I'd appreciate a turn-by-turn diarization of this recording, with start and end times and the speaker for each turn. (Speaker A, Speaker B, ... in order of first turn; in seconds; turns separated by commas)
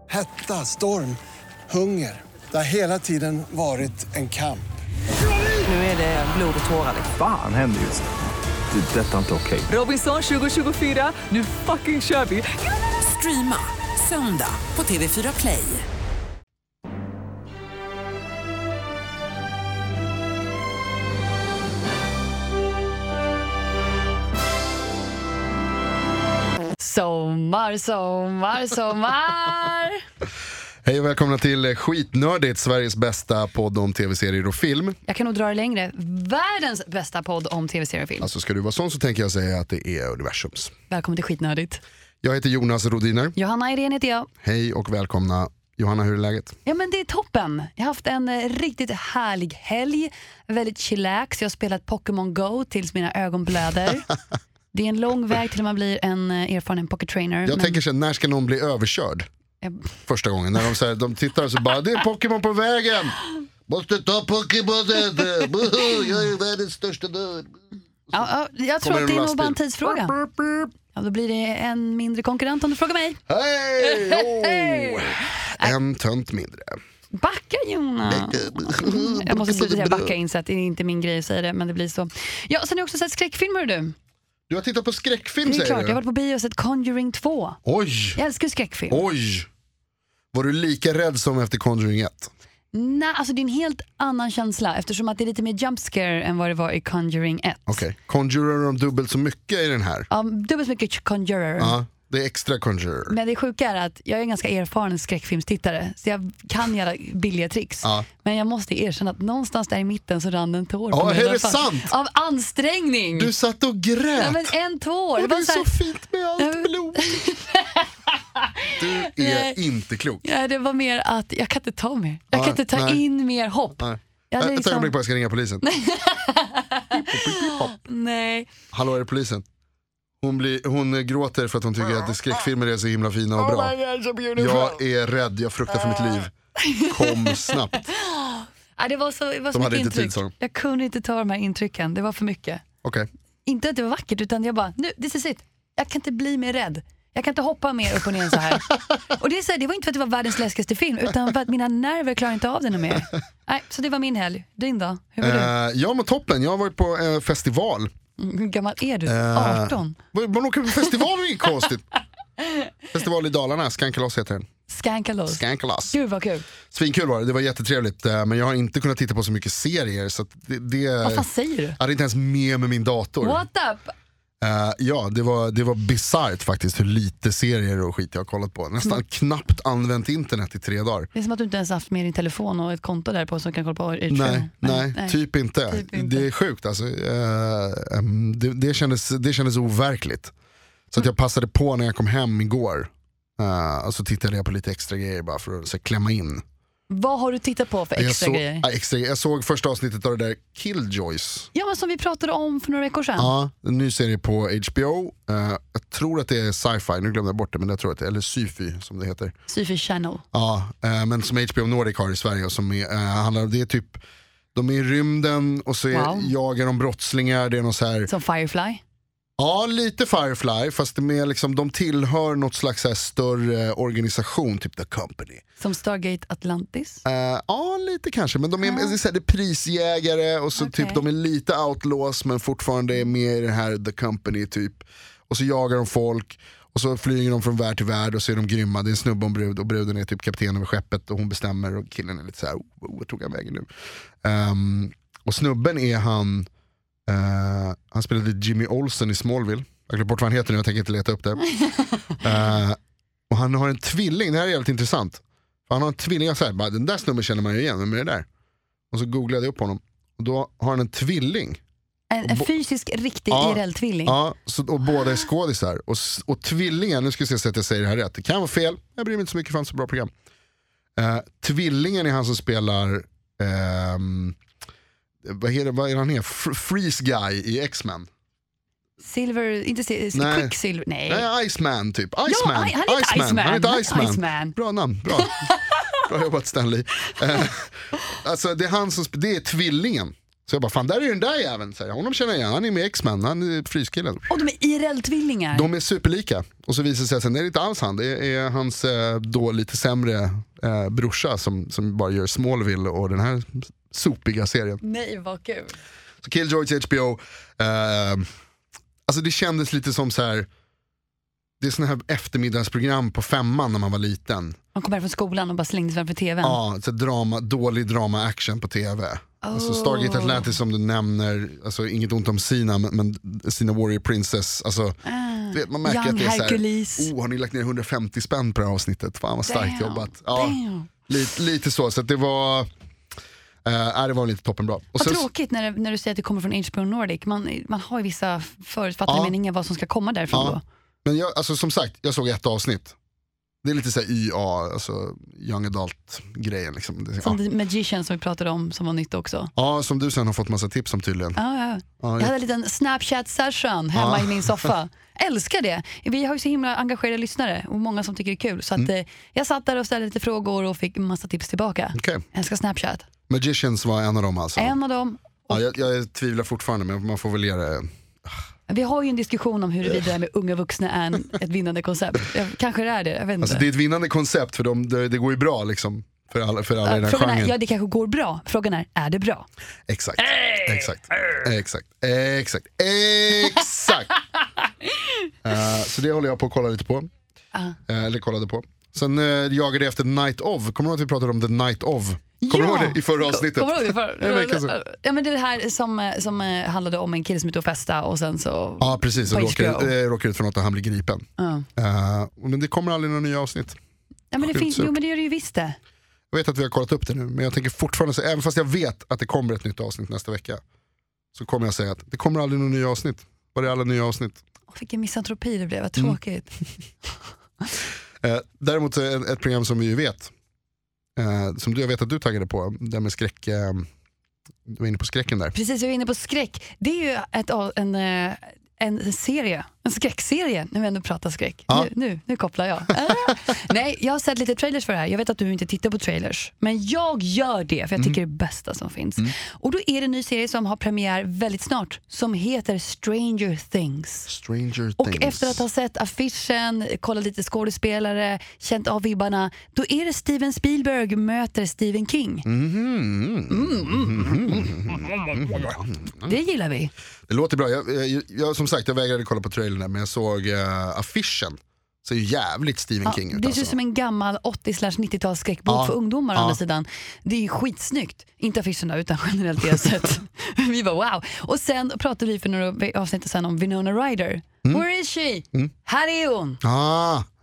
Speaker A: 0.1-4.7, Speaker B: 5.5-7.1, Speaker C: 7.1-8.1, Speaker C: 8.7-9.7, Speaker B: 9.7-15.9, Speaker D: 26.8-30.0, Speaker E: 30.8-35.0, Speaker D: 35.0-38.3, Speaker E: 38.2-40.7, Speaker D: 40.9-41.8, Speaker E: 42.2-43.3, Speaker D: 43.4-44.3, Speaker E: 44.4-46.5, Speaker D: 46.7-54.1, Speaker D: 54.7-57.8, Speaker E: 57.5-59.3, Speaker D: 59.6-59.9, Speaker E: 60.1-67.5, Speaker D: 68.1-70.2, Speaker E: 68.8-70.7, Speaker D: 70.9-73.2, Speaker E: 73.3-76.8, Speaker D: 73.8-75.8, Speaker D: 77.1-84.0, Speaker E: 78.1-80.2, Speaker E: 84.5-86.0, Speaker D: 85.4-87.6, Speaker E: 87.7-88.2, Speaker D: 88.2-89.0, Speaker E: 88.9-89.5, Speaker E: 90.3-92.3, Speaker D: 92.7-97.8, Speaker E: 97.7-100.1, Speaker D: 100.1-101.8, Speaker E: 101.6-103.2, Speaker D: 103.1-113.3, Speaker E: 110.9-111.9, Speaker E: 113.2-114.5, Speaker D: 114.2-115.7, Speaker E: 115.2-117.2, Speaker D: 116.4-119.6, Speaker E: 118.8-120.2, Speaker D: 120.2-125.0, Speaker E: 122.3-123.0, Speaker E: 123.8-125.6, Speaker D: 125.6-128.5, Speaker E: 126.9-127.8, Speaker E: 128.7-129.4, Speaker E: 130.2-133.8, Speaker E: 134.3-137.8, Speaker D: 136.6-142.6, Speaker E: 139.5-140.3, Speaker D: 143.4-155.5, Speaker E: 155.2-157.9, Speaker D: 158.2-160.0, Speaker E: 159.1-161.8, Speaker E: 162.9-164.5, Speaker D: 164.7-166.4, Speaker E: 165.3-165.9, Speaker E: 166.7-171.3, Speaker D: 171.0-171.8, Speaker E: 171.8-173.4, Speaker D: 173.2-173.9, Speaker E: 174.4-181.1, Speaker D: 181.1-186.3, Speaker E: 184.1-190.3, Speaker E: 190.9-196.4, Speaker D: 196.9-198.6, Speaker E: 197.9-201.5, Speaker D: 201.5-203.3, Speaker E: 203.2-209.3, Speaker D: 209.5-210.2, Speaker E: 210.3-214.0, Speaker E: 214.5-218.1, Speaker D: 215.9-216.3, Speaker D: 218.1-218.8, Speaker E: 219.4-225.4, Speaker D: 225.6-227.0, Speaker E: 227.0-243.7, Speaker D: 228.6-228.9, Speaker D: 230.6-231.0, Speaker E: 244.2-246.5, Speaker E: 247.1-251.5, Speaker E: 252.2-252.8, Speaker E: 253.3-258.2, Speaker E: 258.9-261.6, Speaker D: 262.1-264.2, Speaker E: 263.3-270.1, Speaker E: 271.0-274.4, Speaker E: 275.2-278.1, Speaker D: 279.0-281.3, Speaker E: 280.1-280.6, Speaker E: 281.1-294.3, Speaker D: 282.2-284.6, Speaker D: 285.1-285.6, Speaker D: 294.3-295.7, Speaker E: 295.5-304.8, Speaker D: 304.8-305.8, Speaker E: 306.2-308.3, Speaker E: 309.1-310.5, Speaker E: 311.6-314.6, Speaker D: 314.8-316.6, Speaker E: 316.4-325.0, Speaker D: 319.4-320.5, Speaker D: 325.1-327.1, Speaker E: 325.5-332.7, Speaker D: 329.5-330.9, Speaker E: 333.6-335.2, Speaker D: 335.0-340.6, Speaker E: 339.1-339.3, Speaker E: 340.3-343.0, Speaker E: 343.6-347.4, Speaker D: 347.2-349.5, Speaker E: 349.6-351.4, Speaker D: 351.4-363.1, Speaker E: 352.0-352.3, Speaker E: 353.9-354.7, Speaker E: 361.9-362.2, Speaker E: 363.3-364.8, Speaker D: 364.6-365.6, Speaker E: 365.5-367.9, Speaker D: 368.7-373.7, Speaker E: 373.4-377.5, Speaker D: 376.8-379.5, Speaker E: 379.9-384.1, Speaker D: 380.2-381.4, Speaker E: 385.4-387.1, Speaker E: 387.9-394.7, Speaker D: 392.4-399.9, Speaker E: 398.8-403.8, Speaker D: 401.4-401.7, Speaker D: 404.3-405.8, Speaker E: 404.4-404.9, Speaker E: 406.3-410.6, Speaker E: 411.3-414.4, Speaker D: 414.7-416.6, Speaker E: 418.2-420.3, Speaker E: 421.2-423.9, Speaker E: 424.7-425.5, Speaker D: 425.5-444.3, Speaker E: 444.3-445.6, Speaker D: 445.0-452.5, Speaker E: 452.5-456.4, Speaker D: 453.5-454.7, Speaker D: 456.2-456.9, Speaker E: 457.3-463.8, Speaker D: 463.0-476.6, Speaker E: 465.7-466.6, Speaker E: 476.6-477.3